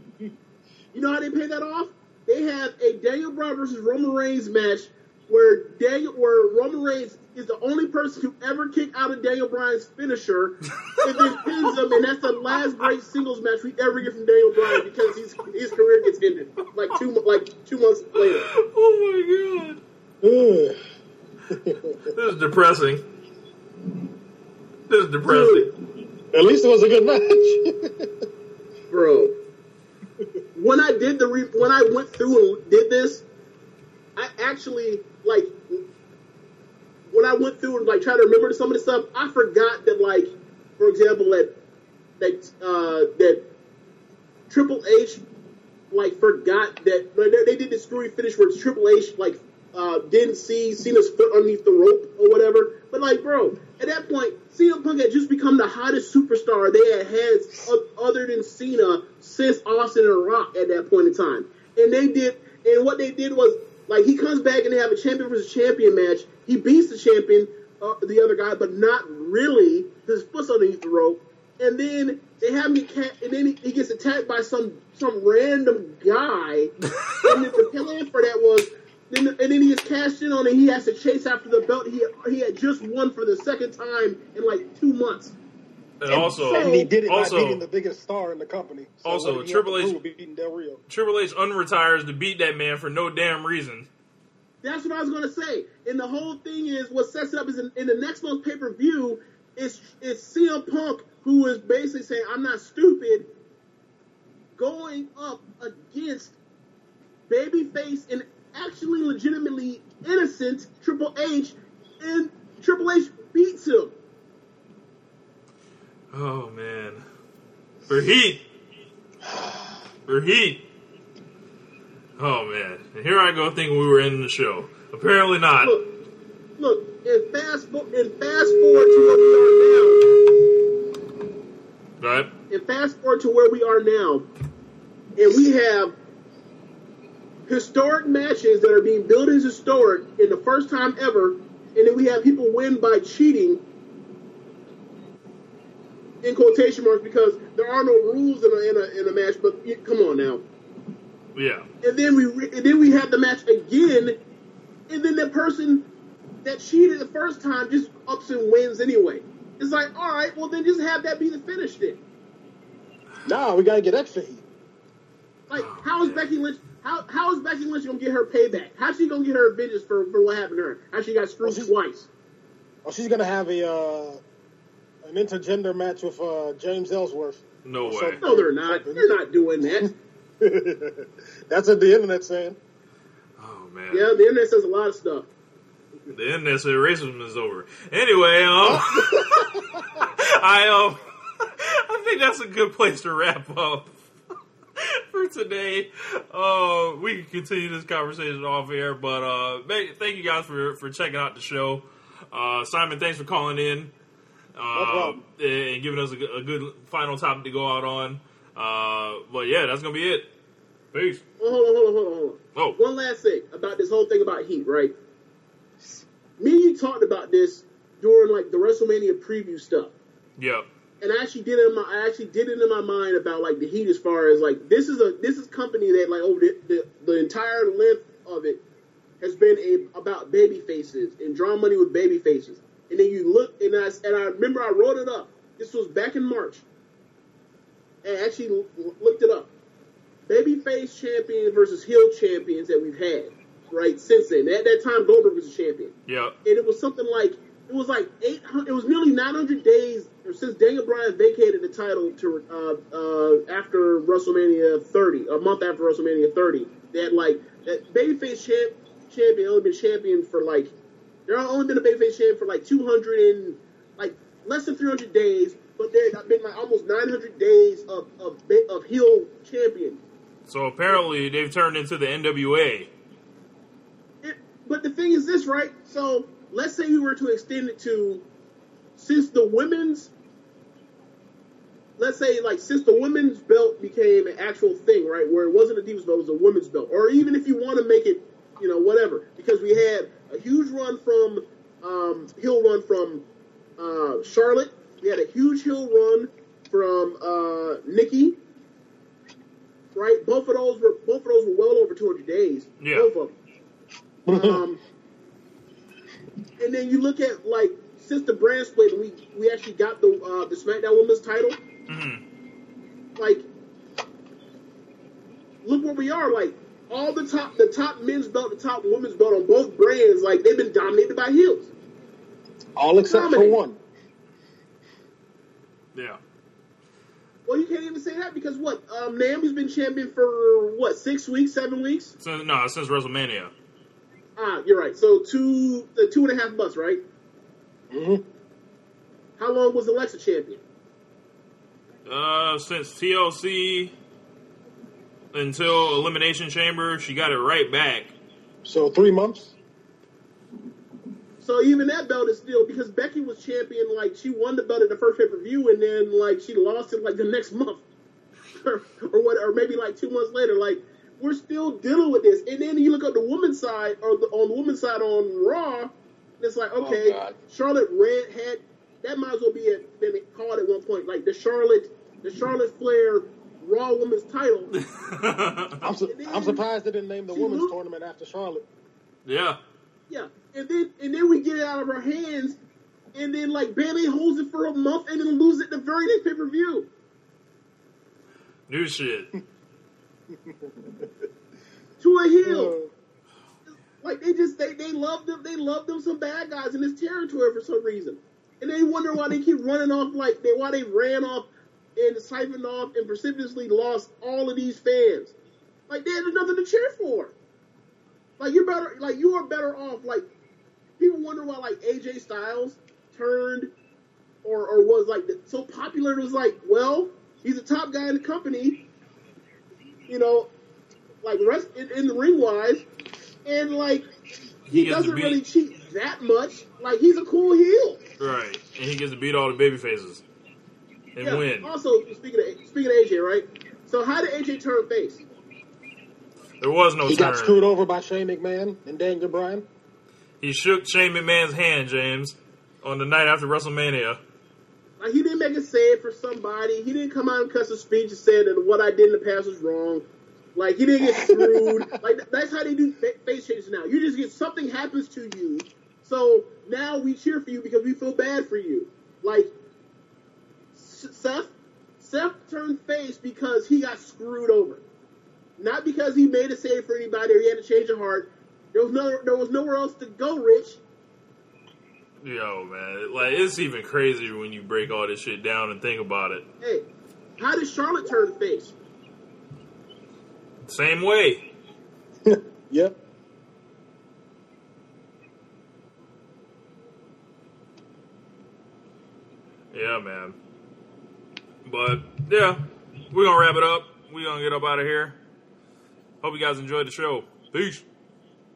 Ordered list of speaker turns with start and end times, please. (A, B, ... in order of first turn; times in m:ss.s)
0:00.9-0:18.5 A
0:18.2-0:19.8 B
0:20.2-0:20.8 C
0:21.5-0:22.0 C
0:22.1-0:23.0 B
0:24.9-0:25.7 B
0:25.2-0:25.7 A
0:26.3-0:27.9 C
0:28.9-0:29.3 A
0:30.6-0:33.2 A
0:34.2-0:35.8 A
0:37.1-0:41.5 A
0:42.2-0:43.4 A
0:44.5-0:45.2 A
0:45.9-1:16.7 A
1:17.0-1:17.5 B
1:17.2-1:25.3 A
1:26.0-1:27.6 B
1:26.1-1:26.9 A
1:26.2-1:30.8 C
1:29.0-1:30.0 B
1:30.9-1:33.9 B
1:34.6-1:43.3 A
1:44.6-1:46.3 A
1:47.3-1:53.9 A
1:56.1-1:57.0 B
1:57.9-1:58.4 B
2:00.1-2:00.6 B
2:02.2-2:05.7 B
2:05.6-2:05.9 A
2:06.6-2:10.1 A
2:12.0-2:12.3 B
2:12.5-2:14.3 A
2:15.2-2:15.9 A
2:17.5-2:23.6 A
2:26.2-2:30.4 A
2:31.3-2:31.6 B
2:31.8-2:34.2 A
2:34.9-2:35.9 A
2:36.4-2:42.0 A
2:43.2-2:44.4 C
2:45.5-2:52.1 A
2:45.5-2:46.3 B
2:51.4-2:51.7 C
2:52.8-2:54.2 C
2:55.0-3:02.6 C
2:57.6-2:58.2 B
2:58.2-2:59.9 A
3:03.4-3:04.1 B
3:03.9-3:05.3 A
3:06.1-3:09.4 B
3:08.6-3:10.1 C
3:10.2-3:14.0 B
3:14.8-3:23.9 B
3:24.6-3:30.3 B
3:24.7-3:25.2 C
3:30.9-3:31.2 B
3:31.4-3:34.9 A
3:36.4-3:39.9 A
3:40.4-3:40.6 B
3:41.0-3:48.6 A
3:49.2-3:56.6 A
3:58.0-3:59.5 A
4:00.3-4:05.9 A
4:06.1-4:06.4 B
4:06.4-4:20.7 A
4:21.3-4:30.0 A
4:30.4-4:32.9 B
4:34.2-4:38.2 A
4:39.0-4:40.1 A
4:42.0-4:53.2 A
4:53.8-4:58.4 A
4:59.9-5:03.3 A
5:02.8-5:03.1 B
5:04.3-5:04.6 C
5:04.3-5:04.8 A
5:06.6-5:11.6 A
5:11.9-5:12.2 B
5:13.2-5:13.4 A
5:15.6-5:21.7 A
5:22.8-5:23.8 C
5:23.1-5:23.6 A
5:25.9-5:26.2 B
5:27.5-5:32.1 A
5:32.2-5:33.5 B
5:34.4-5:37.0 A
5:37.9-5:38.2 C
5:39.4-5:40.6 A
5:42.0-5:43.9 B
5:45.3-5:48.2 B
5:48.6-5:49.5 C
5:51.4-5:57.8 A
5:58.6-6:14.7 A
6:06.8-6:07.3 C
6:14.7-6:15.8 B
6:15.8-6:18.7 C
6:16.0-6:16.6 A
6:17.3-6:17.7 A
6:19.2-6:19.6 B
6:20.1-6:22.6 A
6:23.1-6:26.9 A
6:28.7-6:29.3 B
6:30.3-6:31.0 C
6:32.0-6:32.7 A
6:32.4-6:32.9 C
6:34.0-6:45.3 A
6:45.9-6:47.3 A
6:48.4-6:50.2 A
6:51.0-6:53.7 A
6:54.4-6:58.8 A
7:00.1-7:00.5 A
7:01.2-7:02.8 A
7:03.4-7:04.1 A
7:04.7-7:05.4 B
7:04.7-7:08.0 A
7:08.2-7:10.2 B
7:11.2-7:11.7 B
7:11.2-7:15.2 A
7:16.6-7:17.6 B
7:17.0-7:19.6 C
7:20.4-7:24.2 B
7:25.0-7:39.5 A
7:31.0-7:31.9 C
7:40.7-7:44.8 A
7:45.6-7:50.8 A
7:52.2-7:56.4 B
7:56.6-7:56.8 A
7:57.4-7:58.7 A
8:00.6-8:01.4 B
8:02.3-8:03.0 C
8:09.7-8:10.4 B
8:11.6-8:15.2 B
8:16.2-8:17.8 B